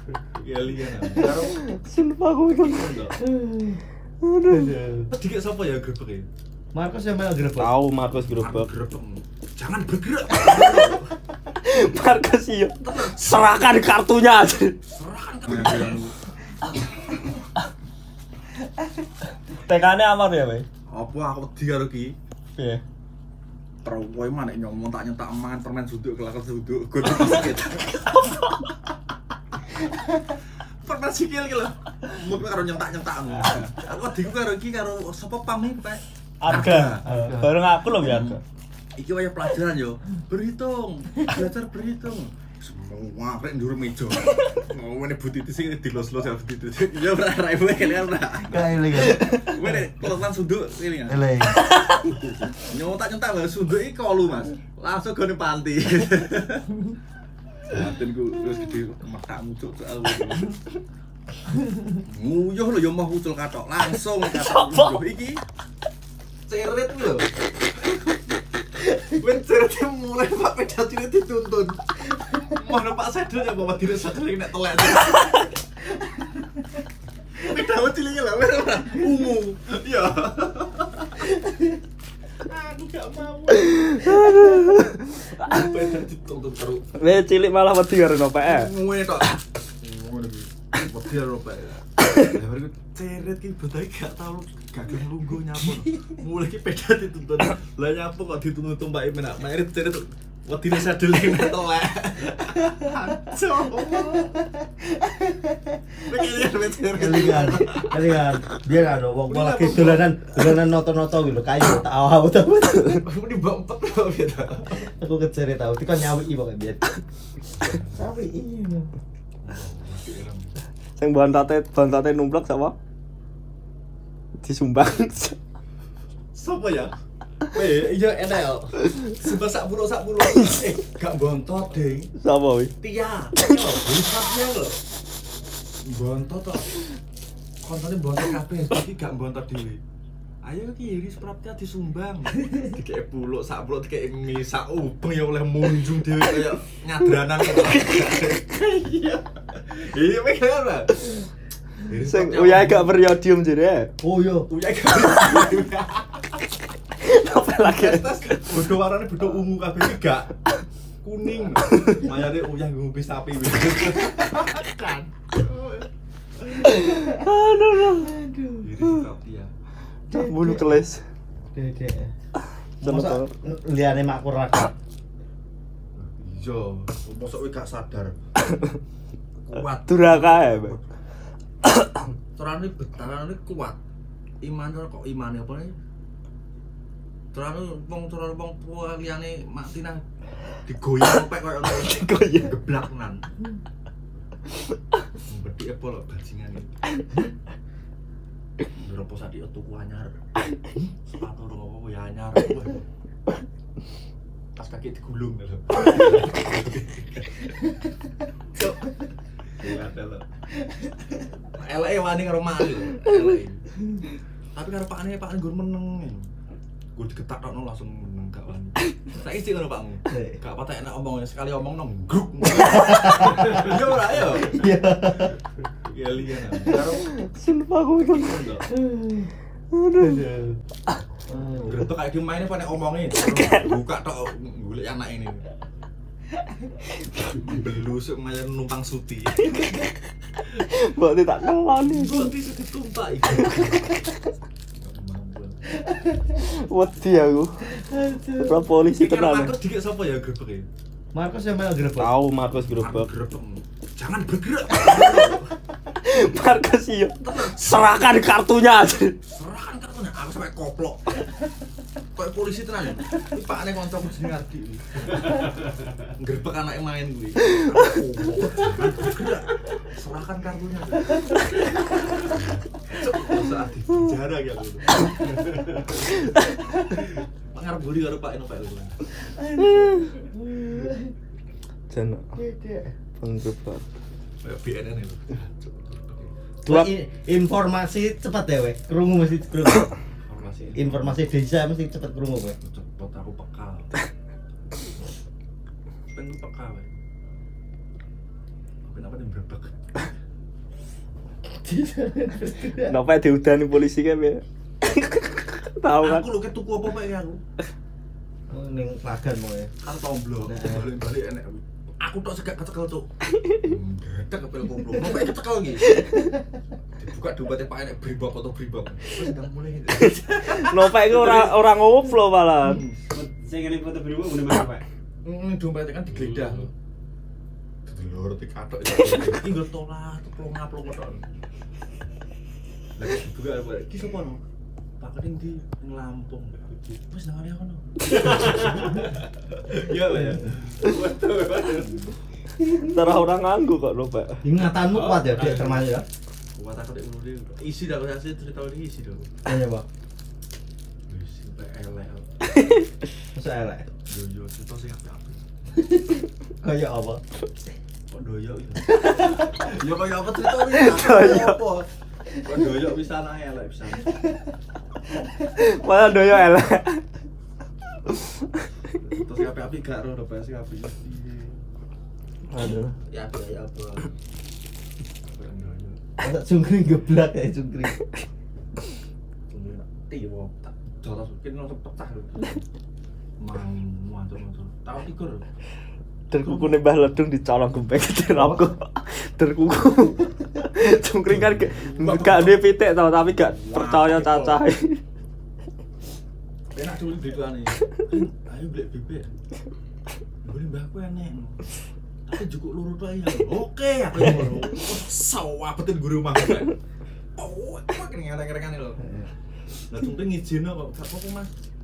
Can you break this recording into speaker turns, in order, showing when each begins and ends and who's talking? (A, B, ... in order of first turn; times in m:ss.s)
0:00.3-0:01.6 A
0:01.1-0:03.2 B
0:02.6-0:03.1 A
0:03.2-0:03.8 C
0:04.2-0:04.8 B
0:04.5-0:05.1 C
0:05.1-0:06.3 A
0:06.7-0:07.7 C
0:07.6-0:08.7 B
0:08.3-0:11.2 A
0:10.6-0:10.8 B
0:11.5-0:14.8 B
0:12.8-0:13.6 A
0:14.9-0:16.2 A
0:15.5-0:16.0 B
0:19.5-0:20.6 B
0:20.9-0:22.1 A
0:22.6-0:22.8 B
0:23.8-0:28.5 A
0:28.2-0:28.5 B
0:30.3-0:37.3 A
0:36.4-0:38.4 B
0:37.0-0:37.5 C
0:38.0-0:38.4 A
0:39.0-0:51.3 A
0:48.5-0:50.0 C
0:51.1-0:51.6 C
0:52.0-0:56.8 A
0:57.6-1:00.6 A
1:01.9-1:05.4 A
1:04.2-1:05.0 B
1:06.5-1:07.3 A
1:08.8-1:11.8 A
1:12.4-1:15.5 A
1:16.1-1:16.6 C
1:17.3-1:21.4 A
1:22.4-1:27.1 A
1:23.7-1:25.7 B
1:26.9-1:28.7 B
1:28.4-1:44.4 A
1:44.1-1:46.0 C
1:46.0-1:48.3 A
1:46.9-1:53.0 C
1:49.2-1:50.4 A
1:52.8-1:54.8 A
1:54.8-1:56.8 C
1:57.6-1:58.0 A
1:58.0-1:58.9 C
1:59.4-2:00.5 A
2:01.0-2:02.7 B
2:04.4-2:05.4 B
2:06.3-2:06.9 A
2:07.4-2:12.1 A
2:10.3-2:10.7 B
2:12.2-2:12.7 B
2:12.8-2:14.8 A
2:15.8-2:16.8 A
2:17.6-2:19.8 A
2:20.4-2:31.1 A
2:27.6-2:28.4 B
2:31.8-2:33.0 A
2:32.0-2:33.9 B
2:34.0-2:34.5 C
2:34.5-2:36.5 A
2:37.0-2:38.4 B
2:37.6-2:40.4 A
2:41.0-2:45.9 A
2:46.6-2:48.2 B
2:46.8-2:47.3 C
2:47.9-2:48.7 C
2:48.6-2:49.5 A
2:50.1-2:51.0 B
2:50.1-2:50.8 C
2:51.5-2:52.1 C
2:52.8-2:53.3 B
2:52.8-2:54.7 C
2:56.0-2:58.1 A
2:59.4-3:00.9 A
2:59.9-3:00.8 B
3:01.6-3:02.1 B
3:02.4-3:03.8 A
3:04.4-3:05.7 A
3:07.3-3:10.0 A
3:10.6-3:13.3 A
3:11.7-3:12.7 B
3:15.2-3:16.8 A
3:18.7-3:22.8 A
3:24.6-3:27.8 A
3:29.5-3:30.2 A
3:30.7-3:31.1 C
3:31.3-3:33.7 A
3:34.5-3:36.2 A
3:36.9-3:44.7 A
3:40.1-3:40.4 C
3:42.6-3:43.6 C
3:44.4-3:45.4 C
3:45.8-3:47.1 A
3:46.6-3:48.6 B
3:48.2-3:48.6 A
3:48.7-3:49.3 C
3:49.7-3:50.2 B
3:50.0-3:50.6 C
3:51.3-3:51.8 C
3:51.6-3:55.4 A
3:53.2-3:53.7 B
3:57.0-3:59.9 A
3:59.5-3:59.9 B
4:00.5-4:02.3 B
4:01.8-4:04.0 A
4:03.3-4:04.1 B
4:04.8-4:05.7 A
4:05.9-4:06.3 C
4:06.3-4:07.8 B
4:07.7-4:08.6 C
4:08.4-4:09.5 B
4:09.0-4:10.7 A
4:11.1-4:12.1 C
4:12.0-4:13.1 B
4:12.7-4:15.6 A
4:15.9-4:19.2 B
4:17.2-4:18.1 A
4:19.3-4:21.2 A
4:22.2-4:39.1 A
4:39.2-4:41.1 C
4:39.6-4:40.1 B
4:41.9-4:42.4 B
4:42.4-4:42.9 C
4:43.2-4:43.8 B
4:44.4-4:46.3 A
4:46.6-4:49.9 C
4:50.2-4:51.2 A
4:50.8-4:52.6 C
4:52.6-4:53.9 A
4:56.1-4:56.9 A
4:58.8-5:00.1 A
5:01.5-5:03.0 C
5:02.8-5:06.2 B
5:06.0-5:07.4 A
5:08.5-5:09.7 C
5:09.8-5:16.0 A
5:10.4-5:10.9 C
5:15.9-5:16.3 B
5:16.9-5:21.6 A
5:20.0-5:22.8 B
5:22.6-5:23.0 A
5:23.1-5:24.8 D
5:25.2-5:26.7 A
5:27.8-5:31.3 A
5:33.0-5:34.4 A
5:35.0-5:42.2 A
5:38.6-5:38.8 D
5:40.1-5:40.4 C
5:42.7-5:44.4 B
5:44.4-5:46.0 C
5:44.8-5:45.8 A
5:46.5-5:49.3 A
5:49.4-5:49.8 C
5:51.1-5:52.3 A
5:52.5-5:52.8 B
5:53.3-5:53.9 C
5:54.1-5:55.4 A
5:55.8-5:57.2 C
5:58.1-6:04.2 A
5:59.0-5:59.5 C
6:00.6-6:01.6 B
6:05.5-6:07.0 B
6:08.1-6:08.6 B
6:08.9-6:11.6 A
6:12.5-6:12.9 B
6:13.1-6:14.1 A
6:15.2-6:16.0 A
6:16.2-6:18.0 C
6:19.5-6:22.6 A
6:23.4-6:25.5 A
6:26.3-6:35.0 B
6:26.4-6:26.8 A
6:28.4-6:28.7 A
6:31.2-6:32.6 A
6:33.3-6:34.6 A
6:36.7-6:39.3 A
6:40.4-6:41.7 A
6:42.2-6:46.8 A
6:47.4-6:49.0 A
6:49.9-6:51.5 A